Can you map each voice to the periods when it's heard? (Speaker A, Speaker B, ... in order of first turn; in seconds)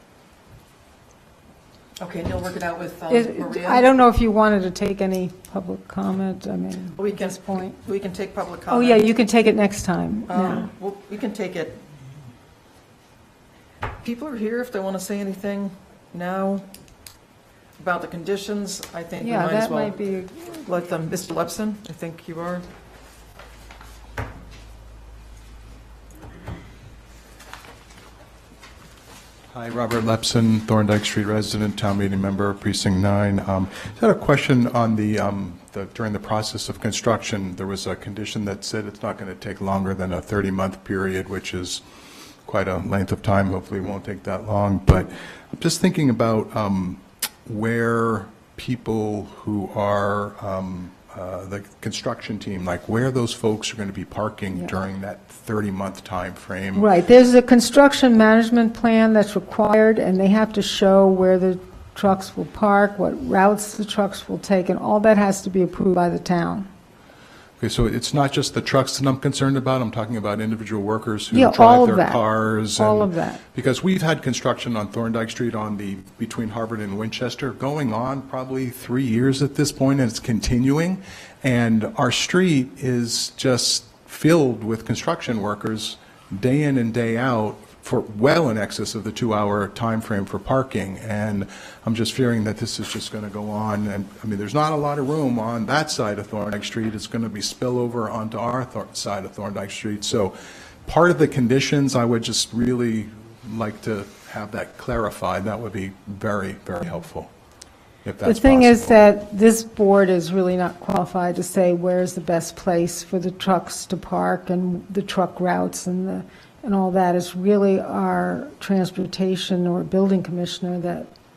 Speaker A: 2.0-3.9, 6.9-9.1, 10.3-11.8, 14.0-16.6, 17.8-22.6
Speaker B: 3.1-7.8, 8.7-10.7, 19.2-20.7, 56.7-66.6, 71.3-73.4, 108.2-121.1
Speaker C: 29.5-41.8, 42.4-56.9, 67.6-107.3, 108.0-109.0